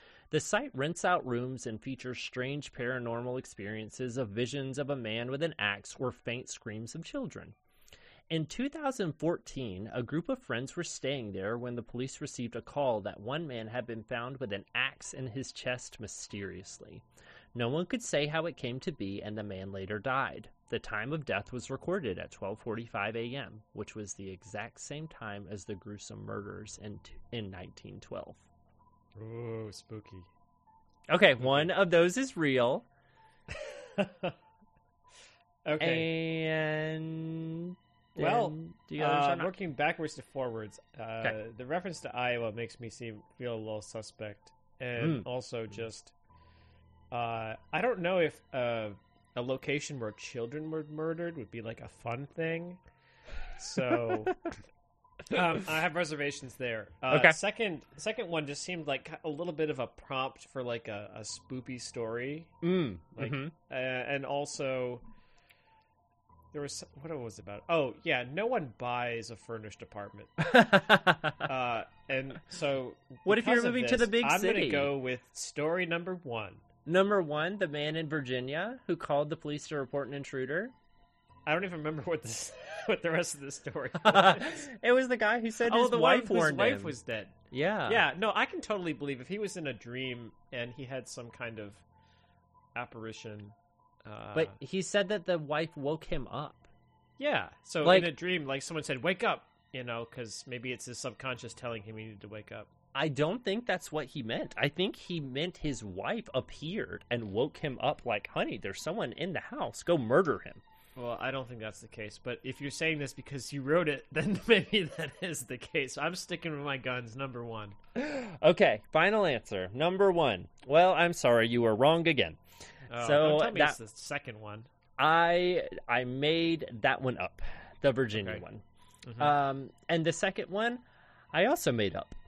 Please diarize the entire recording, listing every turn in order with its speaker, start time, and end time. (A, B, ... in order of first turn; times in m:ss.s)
0:00.3-0:07.6 A
0:08.3-0:17.0 A
0:17.6-0:28.4 A
0:29.2-0:30.3 B
0:31.1-0:32.9 A
0:31.4-0:31.7 B
0:33.5-0:34.4 B
0:35.6-0:36.1 B
0:35.8-0:39.5 A
0:38.2-0:46.1 B
0:45.0-0:45.3 A
0:47.1-0:52.8 B
0:53.6-0:54.4 B
0:54.3-0:54.5 A
0:55.3-1:02.5 B
0:57.1-0:57.4 A
1:02.6-1:03.5 A
1:03.2-1:05.0 B
1:06.5-1:10.3 B
1:10.4-1:11.5 A
1:11.4-1:16.6 B
1:13.3-1:14.9 A
1:16.9-1:20.7 A
1:21.5-1:24.6 B
1:24.0-1:27.0 A
1:25.6-1:31.8 B
1:27.5-1:28.0 A
1:32.8-1:34.6 B
1:34.3-1:36.7 A
1:37.2-1:42.7 B
1:37.8-1:38.1 A
1:43.0-1:50.6 A
1:51.0-1:57.8 B
1:58.0-2:02.4 A
2:02.9-2:04.7 B
2:03.0-2:03.8 A
2:05.0-2:08.6 A
2:08.2-2:08.4 B
2:09.0-2:09.3 B
2:09.2-2:10.8 A
2:11.3-2:12.2 A